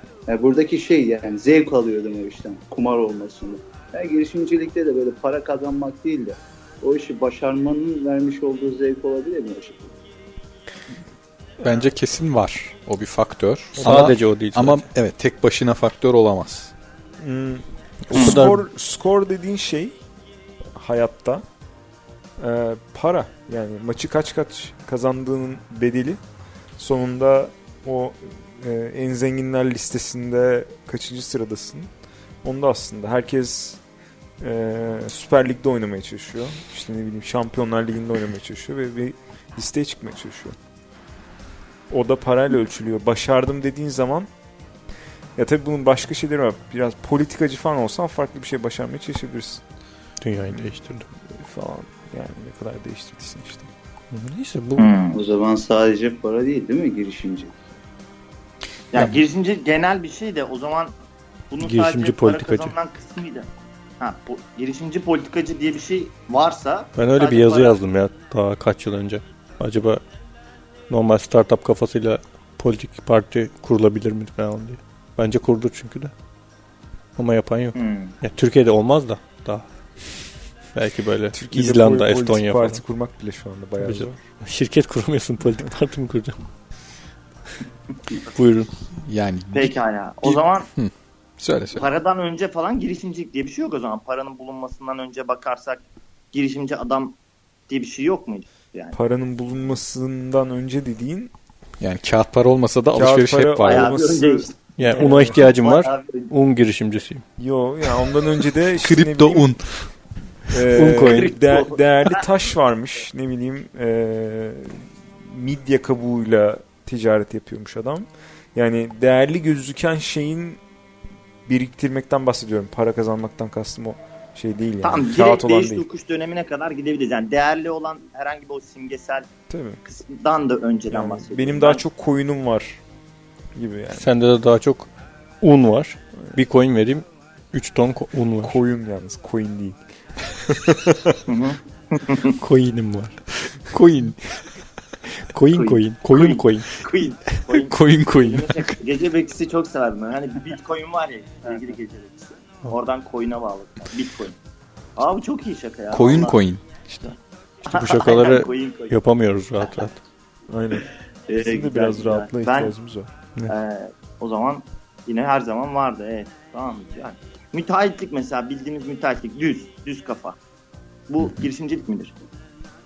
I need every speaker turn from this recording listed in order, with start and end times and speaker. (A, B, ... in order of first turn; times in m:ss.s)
0:00.3-0:09.9 A
0:11.6-0:16.7 B
0:13.8-0:14.8 C
0:17.2-0:20.0 D
0:18.1-0:18.6 C
0:18.1-0:18.4 E
0:20.7-0:21.4 D
0:22.4-0:26.2 D
0:26.8-0:31.9 D
0:32.4-0:33.8 D
0:34.4-0:40.6 D
0:41.9-0:44.3 D
0:45.4-0:49.6 D
0:50.2-0:51.1 C
0:51.4-0:53.7 D
0:54.1-0:54.9 C
0:54.8-0:55.2 E
0:55.1-0:57.5 A
0:58.9-1:00.9 E
1:01.5-1:03.5 E
1:01.6-1:02.7 C
1:04.0-1:07.8 E
1:07.0-1:10.0 C
1:10.9-1:16.1 C
1:17.2-1:19.6 C
1:17.7-1:18.1 E
1:20.7-1:22.8 C
1:21.3-1:24.2 D
1:23.8-1:26.4 C
1:28.3-1:28.7 C
1:29.0-1:31.8 B
1:29.5-1:30.7 E
1:31.7-1:37.2 E
1:37.7-1:39.0 E
1:38.9-1:41.3 D
1:41.8-1:43.9 B
1:42.9-1:45.4 D
1:43.6-1:46.3 E
1:44.8-1:47.2 C
1:47.4-1:49.5 D
1:48.8-1:49.7 B
1:50.5-2:00.6 D
1:50.7-1:51.4 C
1:51.0-1:52.2 E
2:01.4-2:05.8 D
2:04.8-2:09.3 E
2:09.5-2:09.8 D
2:09.8-2:11.8 E
2:10.9-2:12.8 D
2:13.5-2:14.1 D
2:14.0-2:14.9 C
2:15.4-2:18.6 C
2:18.4-2:19.8 D
2:20.3-2:21.2 D
2:21.3-2:22.4 E
2:22.4-2:24.4 C
2:25.3-2:26.7 C
2:25.5-2:34.4 E
2:27.5-2:28.8 B
2:35.0-2:36.4 E
2:35.9-2:37.0 B
2:37.0-2:39.0 E
2:37.6-2:40.0 C
2:39.6-2:39.9 E
2:40.5-2:40.9 D
2:41.3-2:42.7 E
2:41.4-2:43.1 D
2:43.5-2:50.4 E
2:51.1-2:52.2 E